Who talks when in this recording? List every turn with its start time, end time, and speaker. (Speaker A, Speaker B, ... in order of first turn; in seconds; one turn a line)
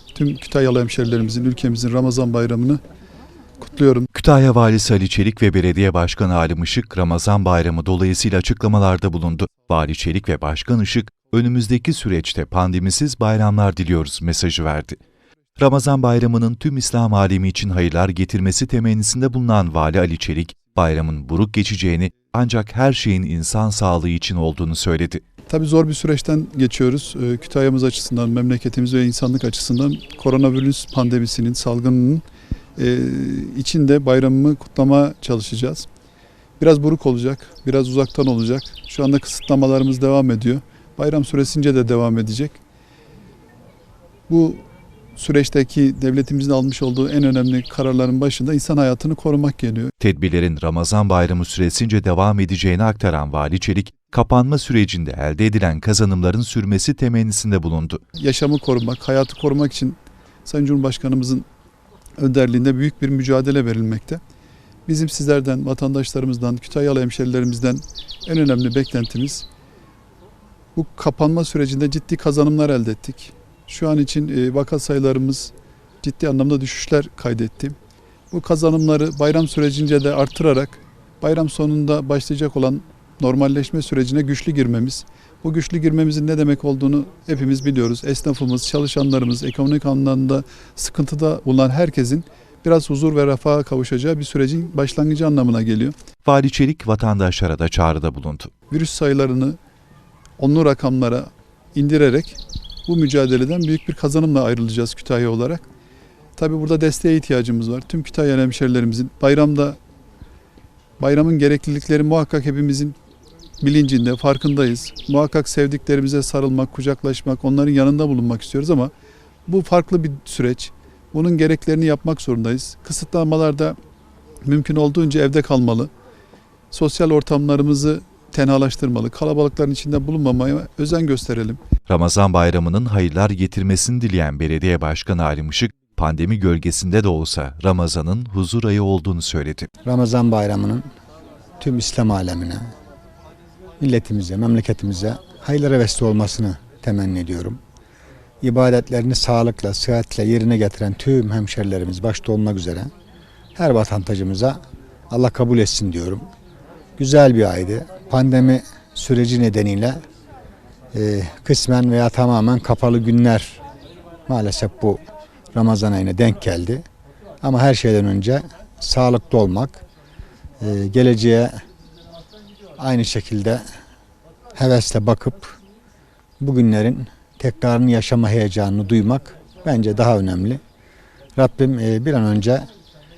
Speaker A: 0.1-2.8
Speaker A: 3.6-4.1
Speaker B: 4.1-15.0
Speaker B: 15.6-25.2
Speaker A: 25.5-32.2
Speaker A: 32.8-35.9
Speaker A: 36.6-42.6
Speaker A: 44.3-49.9
Speaker B: 50.0-58.0
Speaker A: 58.2-61.5
Speaker A: 62.2-64.2
Speaker A: 64.9-69.5
Speaker A: 70.8-77.8
Speaker A: 78.3-95.9
Speaker B: 96.2-98.5
Speaker A: 98.7-99.6
Speaker A: 100.4-105.7
Speaker A: 106.4-109.8
Speaker A: 111.0-113.0
Speaker A: 113.6-118.9
Speaker A: 119.5-123.8
Speaker A: 124.4-125.9
Speaker A: 126.7-131.6
Speaker B: 131.9-139.7
Speaker C: 139.8-140.8
Speaker C: 141.6-142.7
Speaker C: 143.8-147.6
Speaker C: 148.4-152.9
Speaker C: 153.6-154.6
Speaker C: 155.1-156.3
Speaker C: 157.0-160.0
Speaker C: 160.9-163.6
Speaker C: 164.3-165.0
Speaker C: 165.5-166.8
Speaker C: 167.4-169.8
Speaker C: 170.6-171.6
Speaker C: 172.8-173.6
Speaker C: 174.6-175.6
Speaker C: 176.4-180.6
Speaker C: 181.4-182.7